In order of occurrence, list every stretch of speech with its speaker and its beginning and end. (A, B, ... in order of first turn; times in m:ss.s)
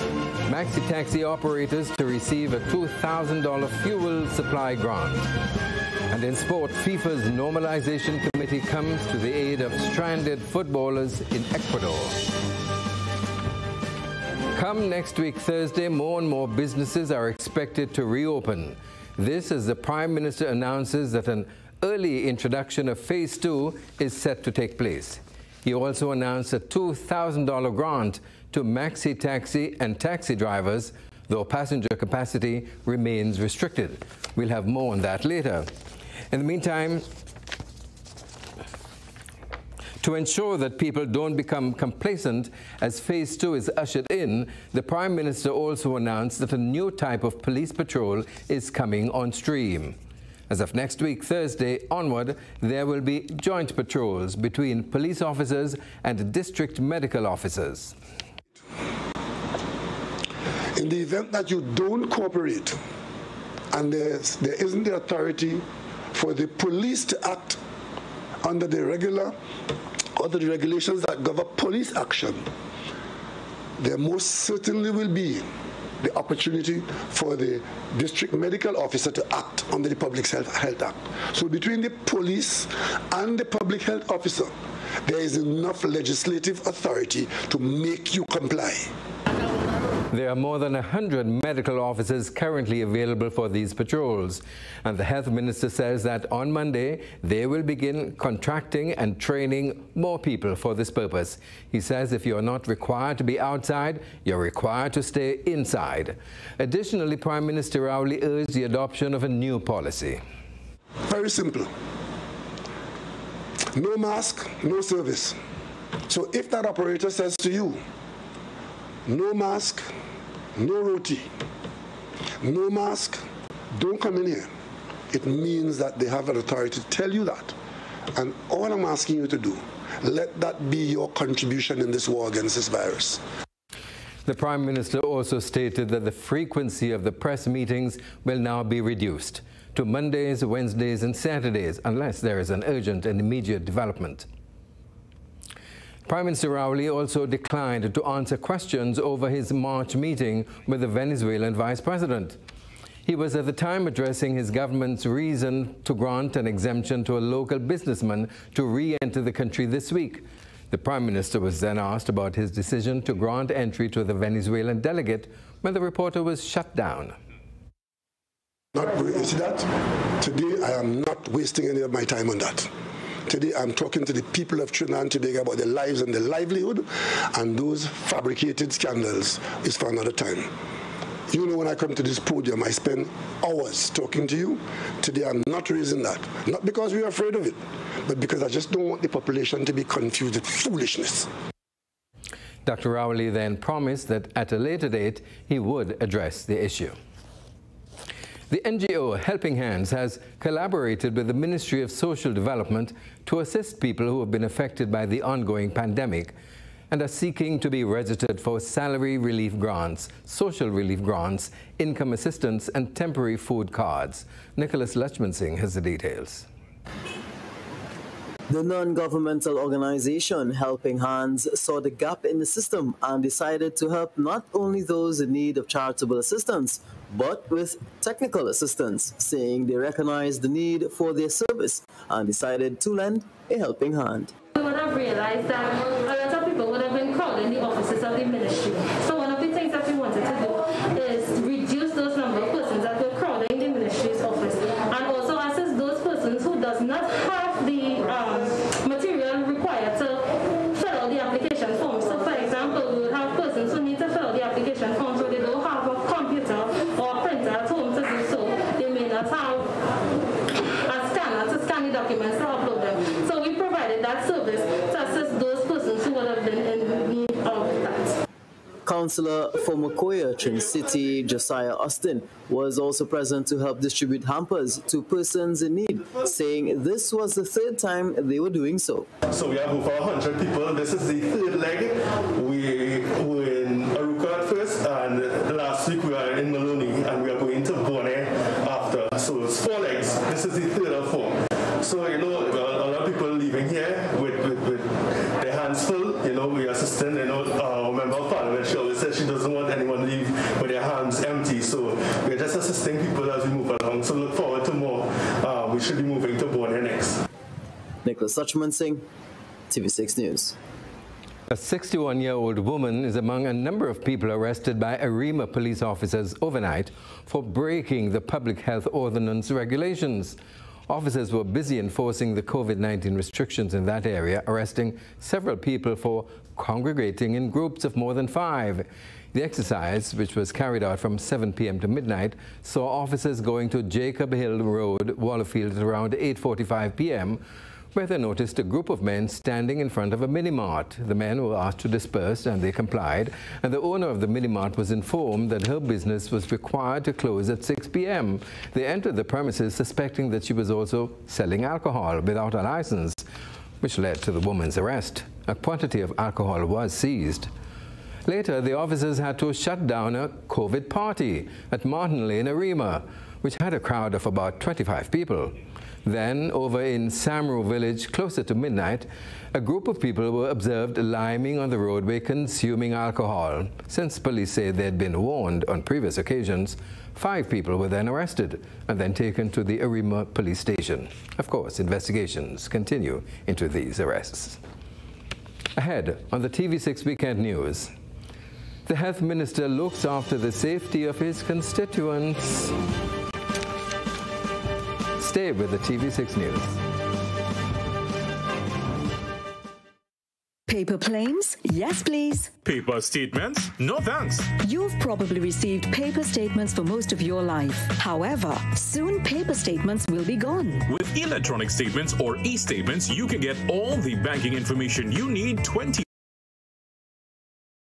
0:00.5-0:05.3 A
0:06.1-0:12.2 A
0:14.6-0:35.7 A
0:36.3-0:37.1 A
0:40.0-0:50.0 A
0:50.5-0:58.0 A
1:00.8-1:02.8 B
1:03.7-1:07.6 B
1:08.4-1:09.4 B
1:10.2-1:12.5 B
1:13.8-1:15.5 B
1:16.0-1:24.5 B
1:25.0-1:28.9 B
1:30.1-1:50.2 A
1:51.0-1:51.7 B
1:53.7-1:55.4 B
1:56.1-1:57.8 B
1:59.1-1:59.9 B
2:00.6-2:01.3 B
2:02.4-2:04.5 B
2:05.1-2:07.6 B
2:08.1-2:13.2 B
2:14.3-2:24.3 A
2:26.1-2:32.4 A
2:33.1-2:47.2 A
2:48.8-2:52.7 B
2:53.3-3:00.5 B
3:01.3-3:11.3 B
3:12.7-3:17.0 A
3:18.5-3:26.3 A
3:26.9-3:36.5 A
3:38.5-3:54.3 C
3:54.6-4:19.9 D
4:20.8-4:28.2 D
4:28.9-4:39.1 C
4:39.3-5:07.2 E
5:08.0-5:09.0 C
5:09.7-5:10.6 C
5:11.5-5:20.4 A
5:20.9-5:37.4 A
5:37.9-5:53.3 A
5:53.8-5:57.5 A
5:58.3-6:24.6 A
6:25.8-6:27.9 A
6:28.9-6:32.7 A
6:35.2-6:36.8 A
6:40.7-6:42.5 F
6:42.6-6:44.5 G
6:44.6-6:50.9 F
6:50.9-6:56.0 G